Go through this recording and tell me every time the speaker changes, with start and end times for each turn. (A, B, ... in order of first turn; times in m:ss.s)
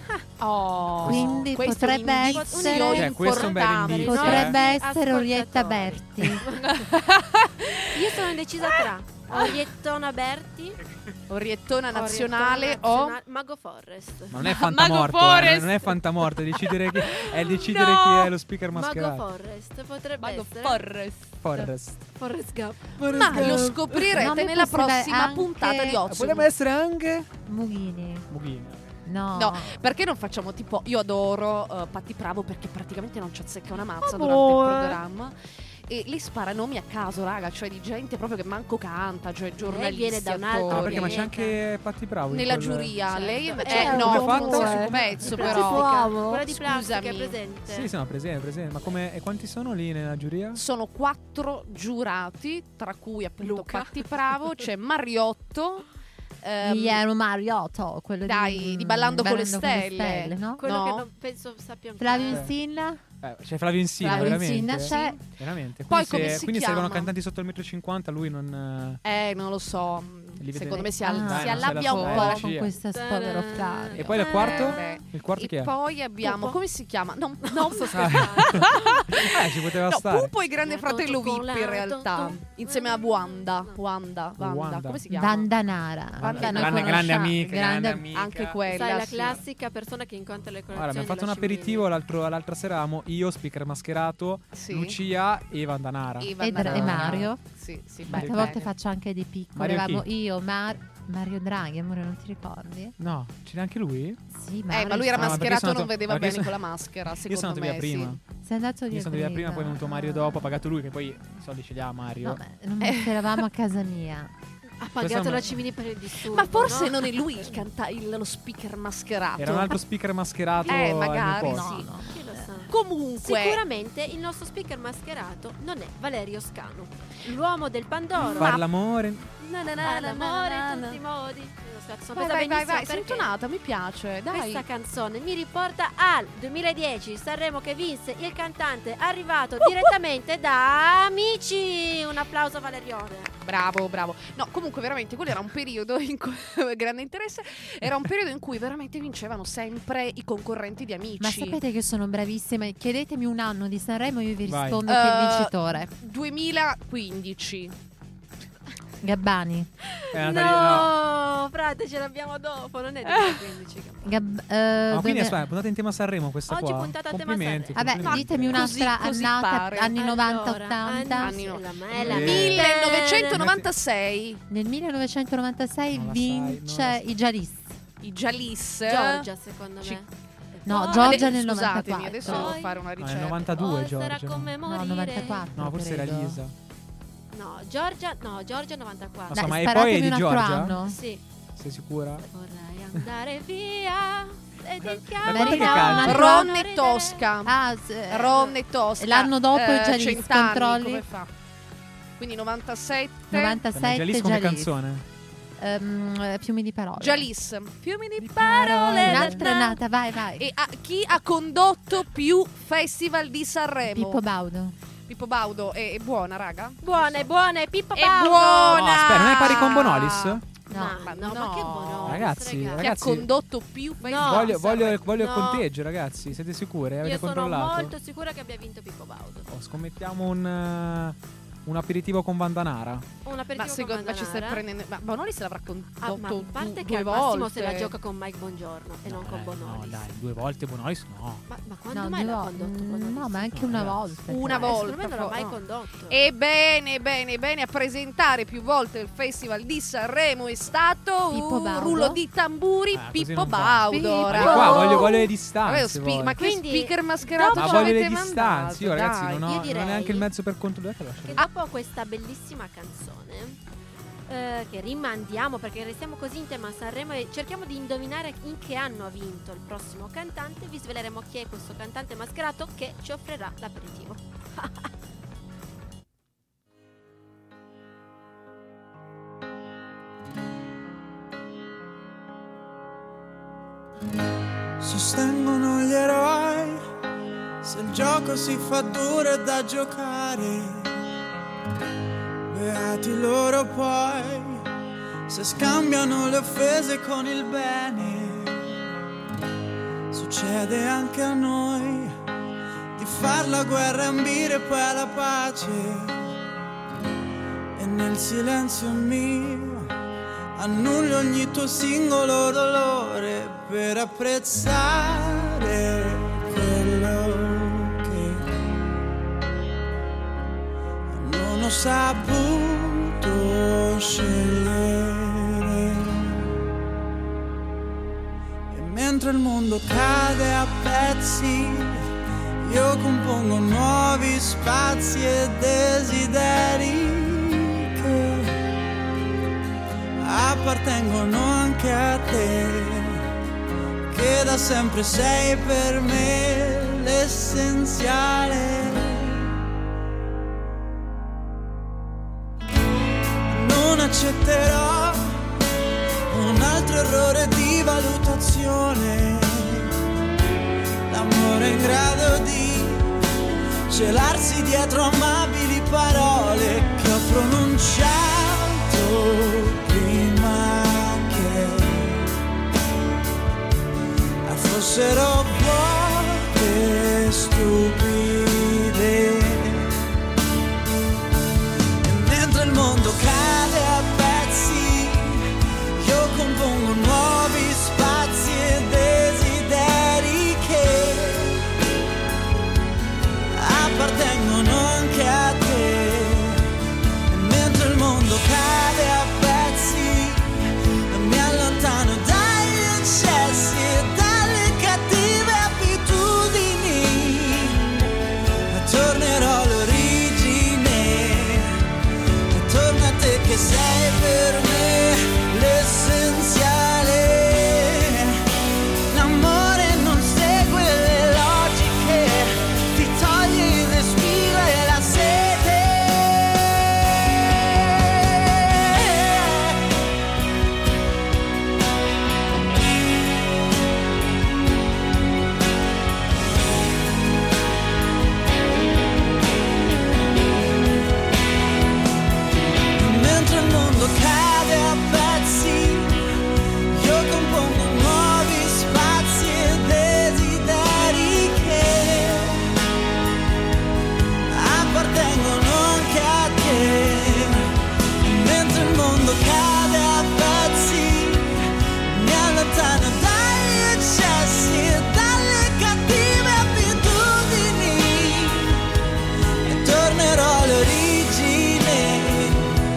0:00.4-0:04.5 A
0:01.0-0:01.4 B
0:01.0-0:03.1 C
0:02.2-0:06.7 D
0:02.8-0:04.6 B
0:04.1-0:06.5 C
0:06.7-0:07.8 A
0:07.9-0:10.8 D
0:11.3-0:13.2 A
0:11.9-0:14.4 D
0:14.3-0:19.2 B
0:14.7-0:15.8 A
0:17.2-0:18.3 A
0:18.7-0:20.9 D
0:20.2-0:21.2 A
0:21.4-0:22.0 B
0:22.2-0:23.6 D
0:23.0-0:26.5 A
0:23.0-0:24.2 B
0:24.1-0:26.0 C
0:26.0-0:27.3 B
0:27.5-0:28.3 C
0:28.3-0:28.9 B
0:29.0-0:29.8 C
0:29.4-0:35.4 A
0:35.9-0:41.3 A
0:39.6-0:41.6 D
0:40.7-0:43.0 B
0:42.3-0:47.4 A
0:43.1-0:47.9 D
0:43.7-0:44.3 C
0:43.7-0:45.4 B
0:45.4-0:46.3 C
0:47.7-0:50.6 B
0:50.6-0:55.9 A
0:53.4-0:54.6 D
0:56.4-0:57.0 A
0:56.6-1:00.6 C
0:58.2-1:01.1 A
1:00.6-1:02.5 D
1:02.0-1:03.0 C
1:03.2-1:09.0 B
1:04.0-1:05.2 C
1:04.0-1:05.2 A
1:05.9-1:07.1 A
1:09.0-1:12.5 A
1:10.4-1:12.7 B
1:11.0-1:14.3 C
1:12.9-1:15.0 D
1:13.9-1:15.7 B
1:14.1-1:25.5 A
1:16.2-1:16.6 D
1:17.4-1:19.2 D
1:17.9-1:20.3 B
1:20.6-1:23.8 D
1:24.4-1:25.0 B
1:25.1-1:28.1 C
1:26.2-1:28.6 B
1:26.2-1:27.4 A
1:28.1-1:29.4 A
1:28.7-1:31.9 D
1:30.7-1:37.3 B
1:34.5-1:35.0 A
1:36.2-1:38.7 A
1:36.4-1:37.4 C
1:38.1-1:38.6 B
1:38.1-1:43.0 C
1:39.6-1:40.1 B
1:43.0-1:44.2 B
1:44.3-1:45.7 C
1:44.7-1:48.2 A
1:45.1-1:46.6 B
1:47.2-1:48.2 B
1:48.4-1:50.6 C
1:48.9-1:52.4 B
1:52.2-1:54.3 C
1:52.8-1:53.4 A
1:54.8-1:57.5 D
1:55.0-1:55.6 B
1:56.2-1:59.8 A
1:59.4-2:01.7 B
2:00.7-2:01.9 A
2:01.4-2:02.5 C
2:02.0-2:08.6 D
2:02.7-2:03.6 A
2:08.3-2:09.3 B
2:08.3-2:08.6 A
2:09.4-2:11.0 A
2:09.8-2:13.3 D
2:12.1-2:14.6 A
2:14.3-2:23.3 D
2:23.4-2:31.6 A
2:31.2-2:35.9 C
2:34.5-2:34.8 B
2:34.9-2:37.8 A
2:39.0-2:39.7 C
2:39.9-2:44.4 D
2:40.1-2:41.0 B
2:43.1-2:43.4 A
2:44.0-2:45.5 C
2:44.9-2:48.8 B
2:46.5-2:48.2 D
2:47.8-2:51.4 C
2:48.0-2:50.0 A
2:50.0-2:53.4 D
2:51.2-2:54.4 A
2:52.0-2:52.7 B
2:53.3-2:53.7 B
2:54.5-2:57.8 C
2:55.9-2:57.0 B
2:58.0-2:59.3 A
2:58.8-3:02.8 D
3:00.7-3:02.6 C
3:00.7-3:03.7 A
3:03.0-3:04.6 B
3:03.5-3:05.5 D
3:04.6-3:06.4 C
3:05.6-3:06.5 B
3:07.3-3:09.5 D
3:09.3-3:10.8 B
3:09.3-3:11.0 C
3:10.8-3:11.2 D
3:11.6-3:12.2 B
3:12.2-3:17.2 D
3:14.9-3:16.3 B
3:15.3-3:16.5 C
3:16.0-3:17.6 A
3:17.4-3:21.0 C
3:18.1-3:21.3 A
3:22.2-3:23.6 A
3:23.3-3:24.7 C
3:23.7-3:25.0 B
3:25.6-3:27.3 C
3:27.0-3:29.8 A
3:28.5-3:30.5 C
3:28.7-3:29.2 B
3:30.4-3:34.2 A
3:33.9-3:34.8 C
3:35.1-3:37.3 A
3:36.8-3:39.4 D
3:37.9-3:45.0 A
3:38.6-3:40.4 B
3:40.7-3:42.9 D
3:42.1-3:43.3 B
3:44.0-3:45.7 D
3:44.2-3:47.9 B
3:47.0-3:49.5 D
3:49.5-3:53.0 B
3:53.2-3:54.6 D
3:53.6-3:57.9 A
3:56.0-4:00.1 D
3:59.0-4:01.4 B
4:01.5-4:03.7 D
4:01.9-4:04.9 C
4:03.6-4:04.1 B
4:04.3-4:19.5 A
4:04.4-4:06.2 D
4:11.3-4:12.2 C
4:12.9-4:16.4 B
4:13.9-4:14.4 C
4:14.3-4:15.3 D
4:16.4-4:18.0 D
4:17.5-4:21.4 B
4:19.4-4:20.3 D
4:21.2-4:23.6 D
4:24.3-4:34.9 D
4:44.8-4:46.8 E
4:47.6-4:51.0 E
4:52.5-4:54.6 E
4:55.3-4:58.8 E
5:00.1-5:02.2 E
5:03.0-5:06.3 E
5:07.8-5:09.9 E
5:10.6-5:18.4 E
5:21.1-5:26.4 E
5:28.7-5:32.0 E
5:32.6-5:38.5 E
5:40.2-5:43.2 E
5:44.1-5:49.5 E
5:53.5-5:55.4 E
5:56.3-5:59.9 E
6:01.1-6:03.2 E
6:03.9-6:12.3 E
6:14.4-6:19.9 E
6:22.0-6:25.4 E
6:26.0-6:31.6 E
6:33.6-6:36.6 E
6:37.3-6:47.8 E
6:48.7-6:51.7 E
6:52.5-6:58.3 E
6:59.1-7:09.8 E
7:22.9-7:26.2 E
7:26.9-7:32.6 E
7:34.5-7:37.7 E
7:38.2-7:48.8 E
7:49.6-7:52.7 E